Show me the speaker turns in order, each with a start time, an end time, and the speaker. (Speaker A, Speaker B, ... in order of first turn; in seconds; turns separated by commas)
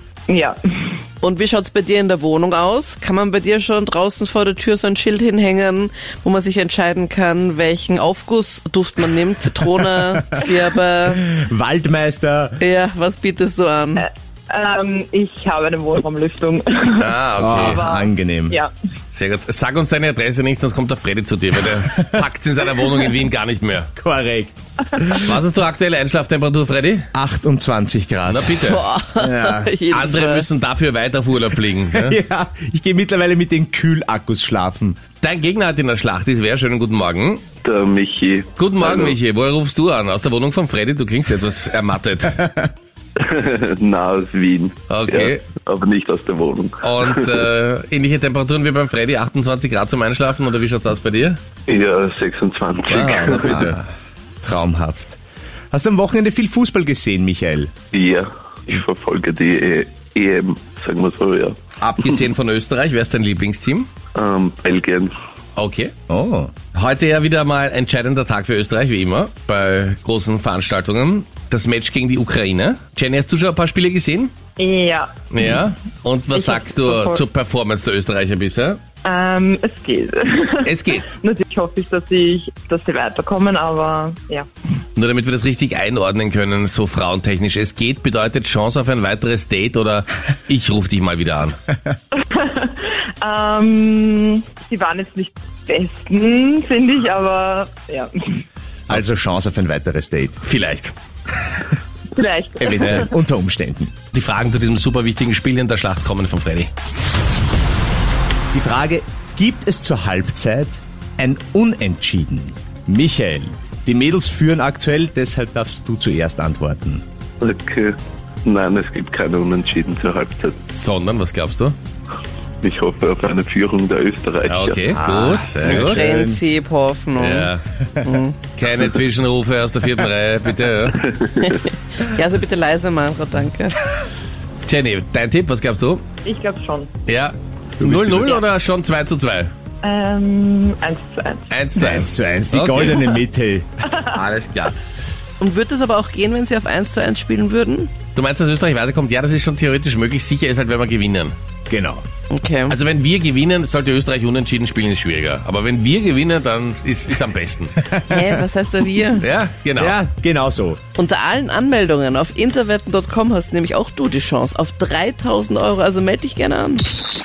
Speaker A: 0.3-0.6, Speaker B: 1.2-11.2, Speaker C: 10.1-10.4, Speaker C: 11.1-12.6, Speaker B: 12.6-14.1, Speaker A: 14.0-18.7, Speaker D: 17.0-17.8, Speaker C: 17.4-18.6, Speaker D: 19.1-23.9, Speaker C: 24.0-25.3, Speaker D: 25.1-27.1, Speaker C: 27.1-28.6, Speaker D: 28.2-28.8, Speaker B: 28.6-30.5, Speaker C: 29.1-29.8, Speaker D: 29.9-32.2, Speaker C: 31.9-35.0, Speaker D: 35.2-37.4, Speaker E: 37.6-39.2, Speaker D: 38.5-42.5, Speaker E: 43.2-47.3, Speaker D: 44.9-45.4, Speaker D: 46.8-51.4, Speaker E: 51.7-53.7, Speaker D: 52.9-53.8, Speaker C: 54.4-55.2, Speaker C: 55.7-57.7, Speaker E: 57.9-61.6, Speaker D: 61.8-63.9, Speaker E: 64.1-65.1, Speaker D: 65.5-65.9, Speaker C: 66.1-66.5, Speaker D: 66.7-74.3, Speaker A: 74.6-75.3, Speaker D: 75.3-78.8, Speaker A: 76.3-77.2, Speaker A: 79.0-84.5, Speaker D: 80.6-81.2, Speaker D: 85.0-91.6, Speaker A: 92.2-98.4, Speaker C: 98.9-100.4, Speaker D: 100.4-100.9, Speaker A: 102.1-102.9, Speaker C: 102.6-103.9, Speaker D: 102.8-103.1, Speaker D: 104.1-106.7, Speaker C: 108.5-117.0, Speaker E: 117.4-120.6, Speaker D: 120.7-121.8, Speaker E: 122.6-124.8, Speaker D: 124.4-126.0, Speaker C: 124.9-126.4, Speaker B: 125.7-128.3, Speaker D: 127.2-127.6, Speaker D: 128.6-131.1, Speaker E: 131.1-131.4, Speaker B: 131.4-133.7, Speaker D: 134.7-136.0, Speaker A: 136.2-136.9, Speaker D: 137.1-139.5, Speaker C: 137.8-138.2, Speaker A: 139.8-141.5, Speaker D: 141.5-143.2, Speaker C: 141.7-143.7, Speaker D: 144.0-144.7, Speaker B: 145.4-147.9, Speaker D: 148.1-151.3, Speaker C: 151.7-152.0, Speaker B: 152.3-152.8, Speaker D: 152.7-157.8, Speaker C: 157.8-158.4, Speaker B: 158.1-159.3, Speaker D: 159.2-160.0, Speaker C: 159.8-160.8, Speaker B: 160.9-166.9